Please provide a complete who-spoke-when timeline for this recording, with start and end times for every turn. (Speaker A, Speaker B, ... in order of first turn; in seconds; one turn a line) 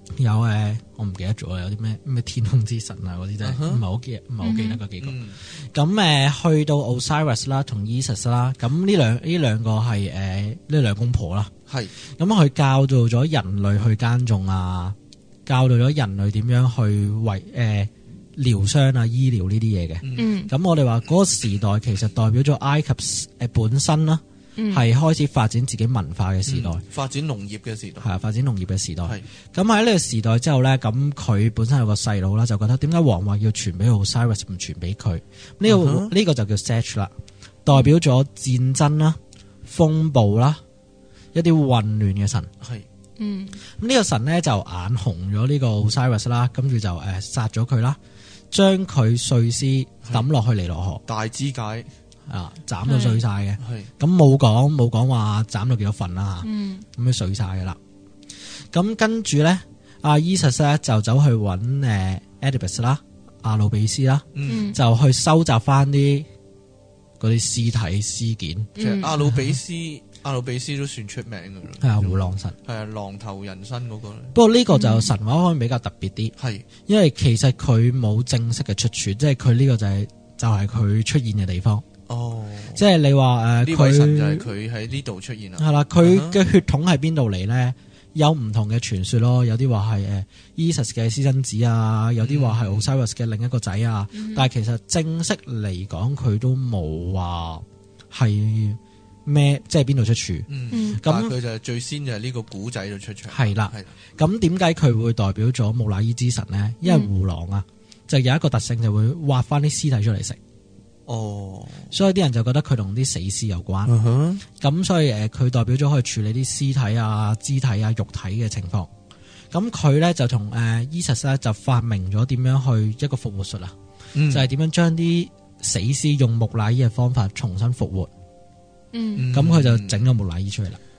Speaker A: 0.2-11.5
Speaker B: 3.4-3.8
Speaker C: 4.4-4.8
Speaker B: 5.0-5.4
Speaker B: 11.7-11.9
Speaker A: 12.2-26.8
Speaker B: 20.0-20.3
Speaker C: 20.1-20.5
Speaker C: 24.6-24.9
Speaker B: 26.4-28.1
Speaker A: 28.0-37.1
Speaker B: 35.6-36.1
Speaker A: 37.6-40.6
Speaker A: 41.3-42.5
Speaker B: 42.6-42.9
Speaker C: 43.2-43.6
Speaker A: 43.7-48.0
Speaker A: 48.5-51.0
Speaker B: 51.1-51.9
Speaker A: 52.3-57.8
Speaker C: 52.8-53.2
Speaker B: 53.6-53.9
Speaker C: 56.4-56.9
Speaker A: 58.7-66.3
Speaker B: 64.3-64.7
Speaker C: 64.5-64.8
Speaker A: 67.2-69.5
Speaker C: 68.8-69.1
Speaker B: 68.8-74.3
Speaker A: 71.8-72.5
Speaker A: 74.3-81.8
Speaker C: 74.7-75.1
Speaker B: 76.4-76.7
Speaker B: 82.1-82.8
Speaker A: 82.8-84.5
Speaker B: 83.6-86.4
Speaker A: 85.6-101.3
Speaker B: 92.2-92.9
Speaker C: 94.1-94.5
Speaker B: 100.5-103.9
Speaker C: 100.7-101.0
Speaker A: 103.3-110.4
Speaker C: 106.8-107.1
Speaker B: 111.1-111.9
Speaker A: 111.9-113.9
Speaker B: 113.8-114.4
Speaker A: 114.6-118.9
Speaker A: 119.5-123.7
Speaker B: 124.1-124.5
Speaker A: 124.3-128.1
Speaker C: 128.9-129.3
Speaker B: 129.2-130.0
Speaker A: 129.3-130.8